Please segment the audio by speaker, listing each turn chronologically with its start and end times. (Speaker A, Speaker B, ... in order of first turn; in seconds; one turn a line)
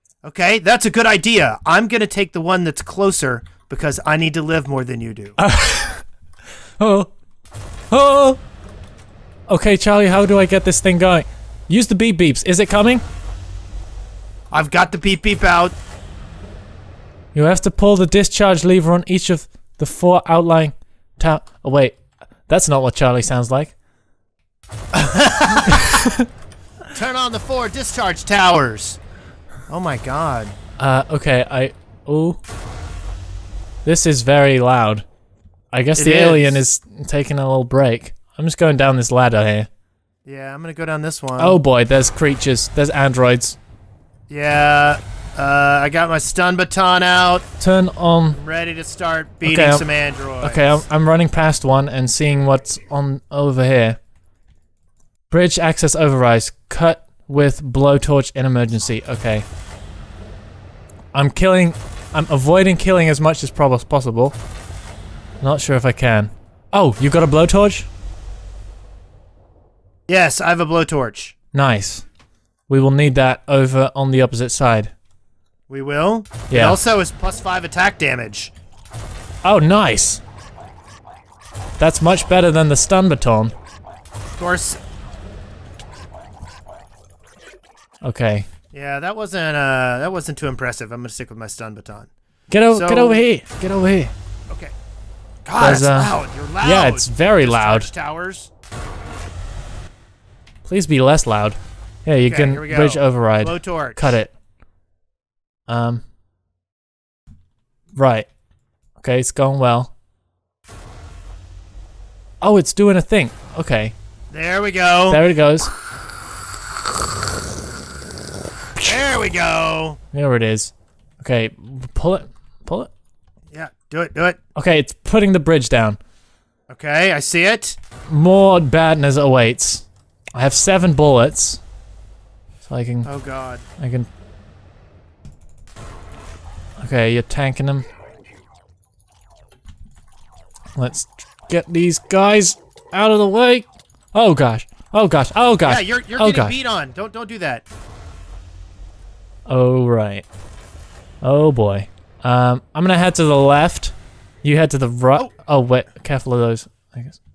Speaker A: 0.2-5.4
Speaker B: 5.4-6.0
Speaker B: 6.8-7.1
Speaker B: 7.9-8.4
Speaker B: 9.5-13.0
Speaker A: 14.5-15.8
Speaker B: 17.3-23.7
Speaker A: 24.9-25.9
Speaker B: 25.7-26.3
Speaker A: 26.9-29.0
Speaker A: 29.7-30.5
Speaker B: 30.8-32.4
Speaker B: 33.8-35.0
Speaker B: 35.7-39.7
Speaker A: 36.0-36.6
Speaker A: 40.2-41.6
Speaker B: 41.4-43.6
Speaker A: 44.3-47.5
Speaker B: 47.6-48.4
Speaker A: 48.3-50.8
Speaker B: 49.4-49.9
Speaker B: 50.4-54.0
Speaker B: 55.3-59.5
Speaker B: 61.1-64.3
Speaker B: 65.4-67.9
Speaker A: 70.1-71.3
Speaker B: 71.5-72.0
Speaker B: 72.7-74.9
Speaker A: 75.7-78.5
Speaker B: 76.5-76.8
Speaker B: 79.4-80.2
Speaker B: 81.8-83.5
Speaker A: 84.4-84.8
Speaker B: 88.0-88.5
Speaker A: 88.7-92.1
Speaker B: 92.5-94.1
Speaker A: 92.7-93.3
Speaker A: 94.5-94.7
Speaker A: 95.4-98.5
Speaker B: 95.6-97.9
Speaker B: 100.6-104.3
Speaker A: 102.3-104.2
Speaker B: 105.7-106.0
Speaker B: 107.9-108.3
Speaker B: 109.0-109.9
Speaker B: 112.4-113.9
Speaker A: 114.3-115.3
Speaker B: 115.1-115.7
Speaker A: 118.8-120.0
Speaker B: 120.1-122.9
Speaker A: 123.5-124.4
Speaker B: 124.5-126.0
Speaker A: 126.7-127.8
Speaker B: 128.1-131.6
Speaker B: 132.7-133.1
Speaker A: 133.0-133.7
Speaker B: 133.8-134.1
Speaker B: 136.8-137.9
Speaker B: 140.8-146.5
Speaker A: 145.6-147.6
Speaker B: 149.5-150.3
Speaker B: 151.2-157.2